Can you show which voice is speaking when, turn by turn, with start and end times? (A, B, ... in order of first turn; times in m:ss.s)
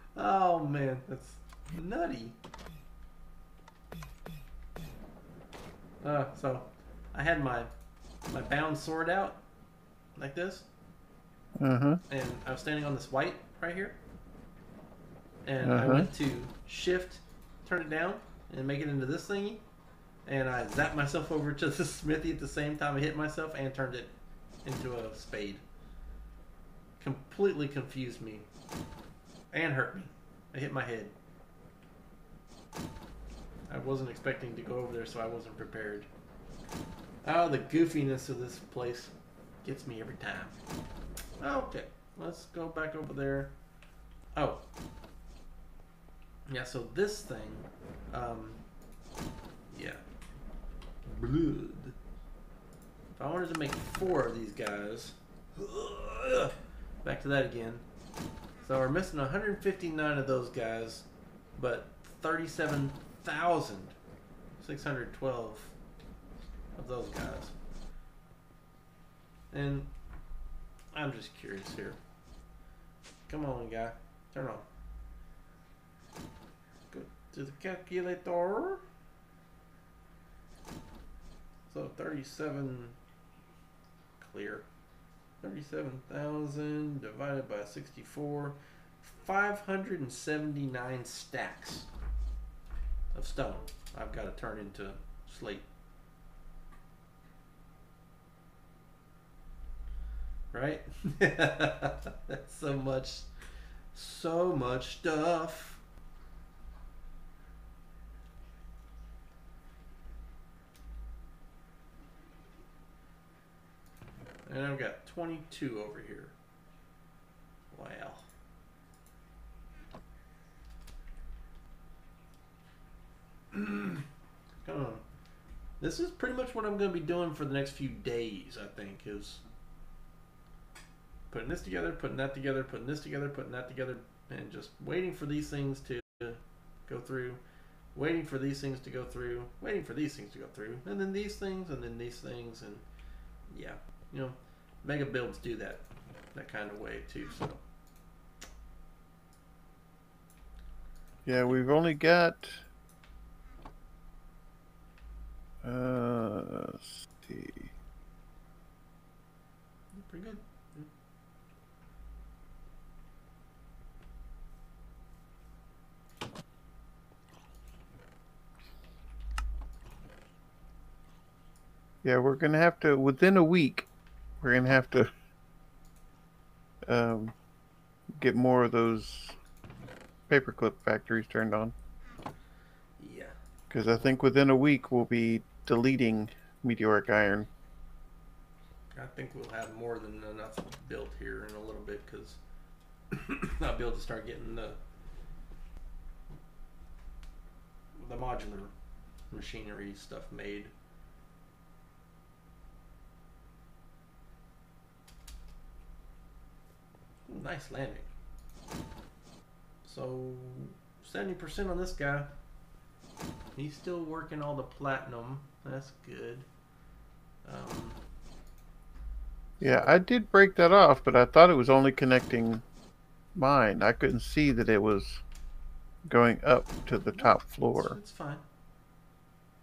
0:00.2-0:02.4 A
0:06.0-0:07.7 A
0:08.3-0:09.4 A
0:10.2-0:10.7 A
0:11.6-0:12.0 B
0:12.1-0:14.0 A
0:15.4-0:19.6 A
0:15.6-0:16.1 B
0:20.3-0:25.6 A
0:27.0-0:28.5 A
0:29.5-0:31.2 A
0:33.7-0:36.1 A
0:37.2-0:40.6 A
0:41.4-0:43.5 A
0:44.4-0:44.6 A
0:46.5-0:48.6 A
0:49.7-0:50.0 A
0:51.0-0:52.0 A
0:53.2-0:57.8 A
0:58.6-1:04.0 A
1:04.6-1:05.8 A
1:06.8-1:07.6 A
1:09.5-1:09.9 A
1:10.9-1:12.0 A
1:13.3-1:14.7 A
1:16.9-1:18.8 A
1:21.7-1:23.0 A
1:24.2-1:24.7 A
1:25.4-1:31.9 A
1:33.1-1:35.7 A
1:40.5-1:43.3 A
1:43.9-1:45.8 A
1:54.5-1:56.3 A
1:57.7-1:58.3 A
2:03.5-2:04.0 A
2:04.6-2:05.0 A
2:05.8-2:09.4 A
2:11.3-2:17.4 A
2:18.0-2:22.8 A
2:23.5-2:27.6 A
2:31.3-2:32.7 B
2:35.6-2:37.7 B
2:39.9-2:40.9 A
2:52.0-2:53.9 B
2:54.4-2:55.1 B
2:56.9-2:57.4 B
2:58.1-2:59.4 B
3:00.3-3:01.7 B
3:03.0-3:03.4 A
3:03.7-3:07.5 B
3:08.9-3:12.4 A
3:13.1-3:14.8 A
3:18.0-3:18.7 A
3:19.3-3:20.7 A
3:27.3-3:28.1 A
3:29.8-3:32.3 A
3:33.6-3:36.5 A
3:37.4-3:38.0 A
3:39.6-3:40.0 A
3:39.6-3:42.6 B
3:43.4-3:45.2 B
3:46.1-3:48.0 B
3:47.2-3:48.4 A